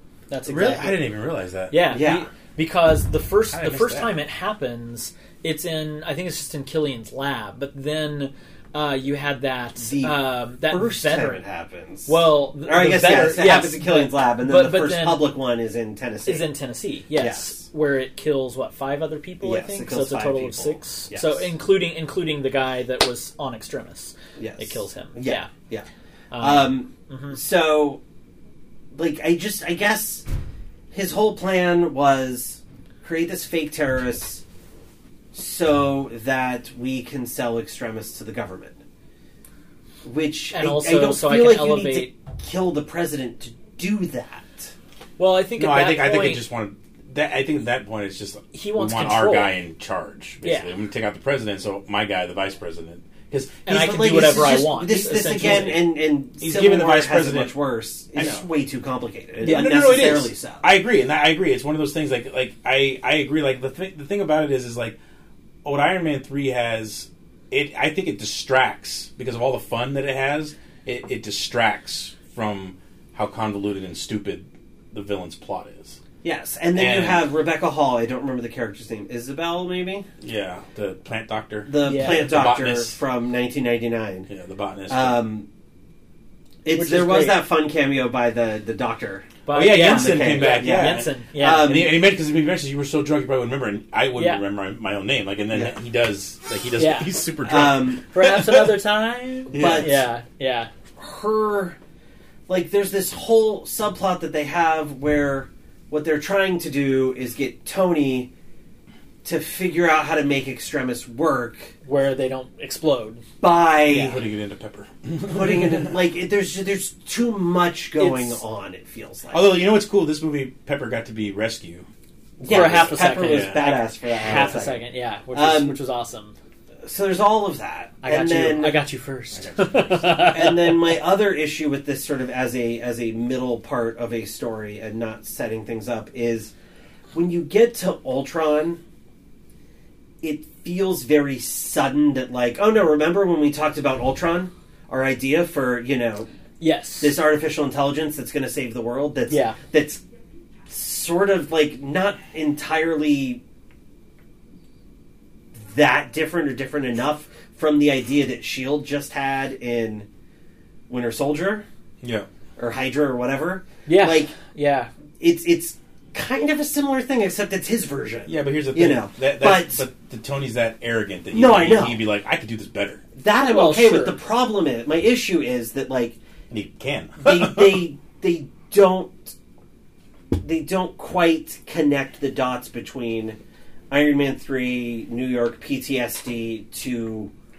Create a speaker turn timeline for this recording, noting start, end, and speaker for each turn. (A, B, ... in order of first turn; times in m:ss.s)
0:00.3-0:01.0 A
0:00.5-0:02.0 B
0:01.7-0:11.4 A
0:01.9-0:02.3 C
0:03.5-0:04.2 B
0:09.8-0:16.5 C
0:12.1-0:15.3 A
0:16.2-0:25.5 A
0:17.2-0:17.6 C
0:19.4-0:21.5 C
0:24.4-0:28.0 C
0:26.3-0:27.4 A
0:28.9-0:30.3 C
0:30.9-0:34.4 C
0:35.3-0:38.8 C
0:40.0-0:44.7 C
0:40.5-0:42.1 A
0:45.2-0:46.4 A
0:45.6-0:54.0 B
0:48.5-0:49.6 A
0:50.4-0:50.7 A
0:53.6-0:55.9 A
0:53.7-1:00.7 C
0:56.4-0:57.5 B
0:58.2-0:58.5 B
0:59.4-1:05.0 B
0:59.4-1:00.2 A
1:05.6-1:16.0 B
1:16.2-1:20.1 C
1:16.7-1:17.3 B
1:20.2-1:23.0 B
1:21.7-1:24.3 C
1:21.8-1:22.4 A
1:24.3-1:25.2 B
1:24.9-1:25.5 C
1:26.6-1:32.0 C
1:26.7-1:27.4 A
1:29.4-1:31.8 A
1:29.5-1:38.7 B
1:34.2-1:34.4 A
1:36.8-1:37.2 A
1:37.4-1:38.1 C
1:38.0-1:40.7 A
1:39.5-1:40.0 B
1:39.5-1:40.0 C
1:41.0-1:41.8 C
1:42.5-1:48.3 C
1:49.2-1:51.7 C
1:51.8-1:53.2 A
1:53.4-1:54.2 C
1:53.9-1:54.2 A
1:53.9-1:56.0 B
1:55.3-1:59.6 C
1:58.0-1:58.4 A
1:59.3-2:01.9 B
2:02.4-2:03.7 B
2:02.4-2:05.8 C
2:02.4-2:06.4 A
2:04.2-2:04.6 B
2:06.8-2:08.9 C
2:08.0-2:10.9 A
2:09.3-2:10.2 B
2:10.0-2:16.5 C
2:17.1-2:18.8 C
2:20.2-2:26.3 C
2:26.6-2:27.2 A
2:27.0-2:30.0 C
2:29.3-2:29.6 A
2:30.7-2:33.4 C
2:35.5-2:40.1 C
2:40.9-2:41.6 C
2:42.0-2:42.3 B
2:42.6-2:44.4 C
2:43.9-2:44.9 A
2:45.2-2:49.8 C
2:48.3-2:53.0 B
2:51.3-2:52.0 C
2:53.2-2:56.2 C
2:53.4-2:54.2 A
2:56.5-2:57.9 B
2:57.2-2:59.4 C
3:00.4-3:03.4 C
3:03.9-3:07.3 C